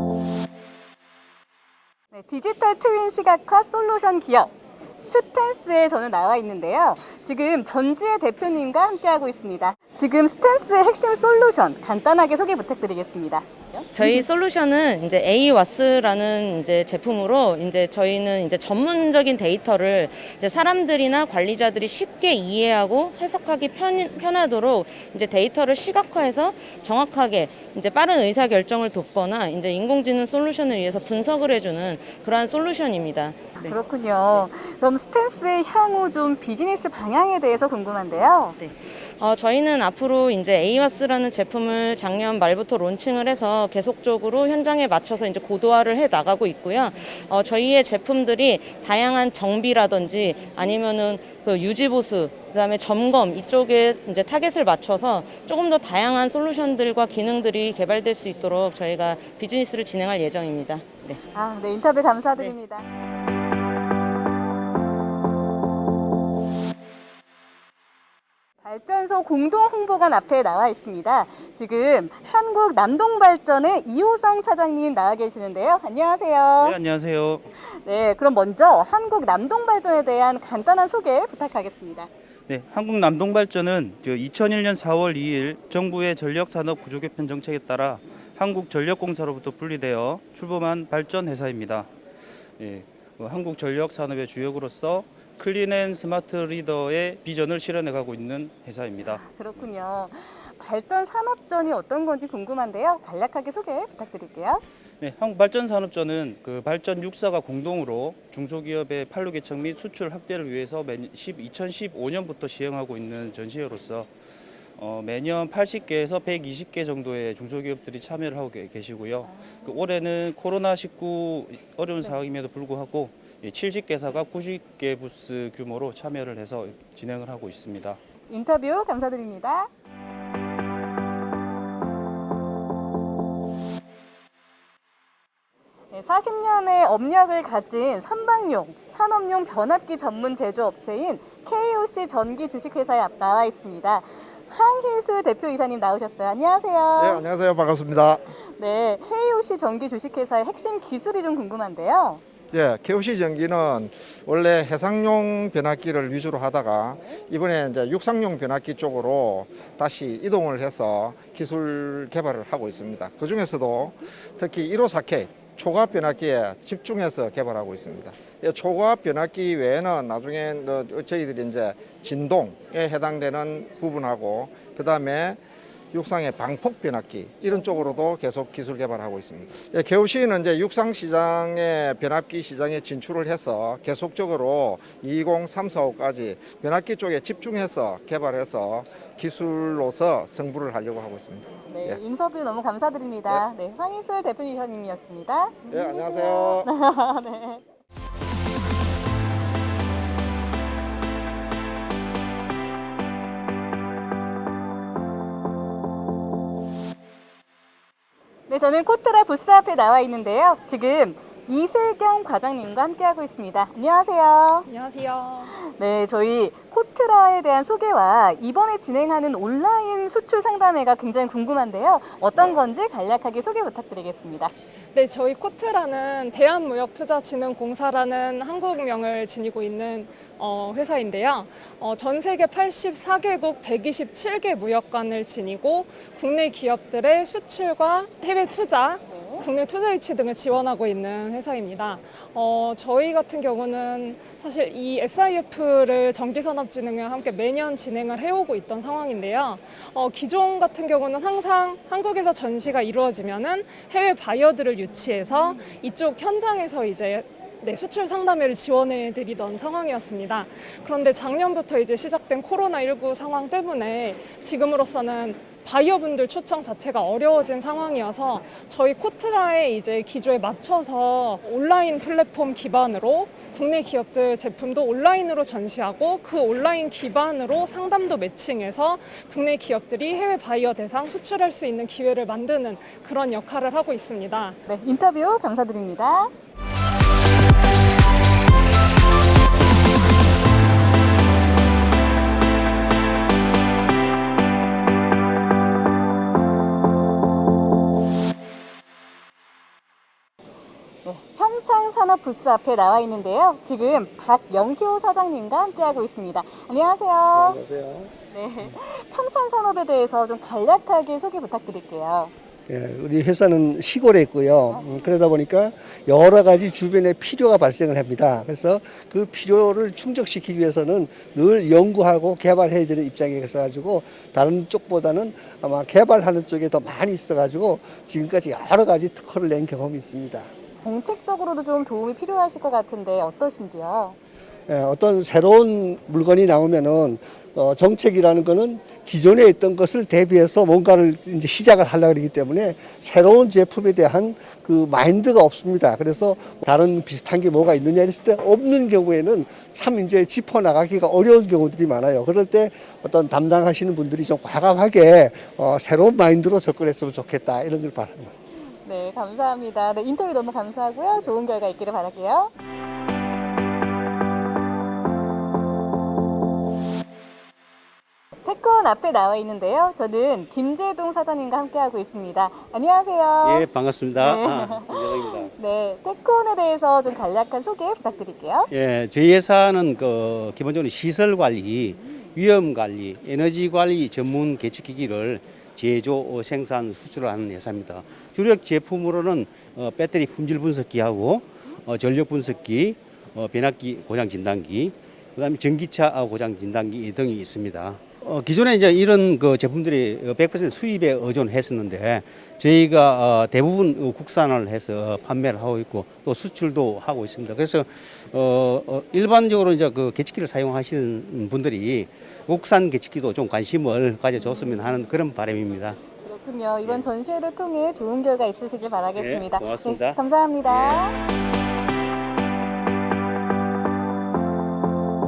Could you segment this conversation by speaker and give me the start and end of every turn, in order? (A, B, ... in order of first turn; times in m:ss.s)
0:02.1-0:13.8 A
0:13.9-0:33.8 B
0:33.6-0:38.6 A
0:38.6-1:01.2 B
1:01.3-1:02.8 A
1:08.6-1:16.8 A
1:16.6-1:17.4 C
1:17.6-1:22.1 A
1:22.5-1:31.9 C
1:32.6-1:39.6 C
1:39.0-1:44.6 A
1:45.0-1:54.1 C
1:54.8-2:08.0 C
2:08.3-2:09.7 A
2:15.9-2:27.2 A
2:27.0-2:28.3 D
2:28.6-2:32.2 A
2:32.5-2:55.4 D
2:55.9-3:12.0 D
3:11.6-3:17.6 A
3:15.7-3:16.7 D
3:28.5-3:34.7 A
3:34.7-3:35.5 E
3:35.5-3:44.5 A
3:45.0-4:44.6 E
3:59.1-3:59.5 A
4:44.6-4:46.3 A
5:01.0-5:07.6 A
5:07.3-5:08.1 F
5:08.3-5:12.3 A
5:12.7-5:30.5 F
5:30.8-5:34.2 A
5:34.7-5:58.3 F
5:58.8-6:02.5 A
6:08.4-6:13.6 A
6:13.4-6:15.5 G
6:14.2-6:18.7 A
6:18.7-6:56.0 G
6:56.2-7:01.2 A
6:59.2-7:01.0 G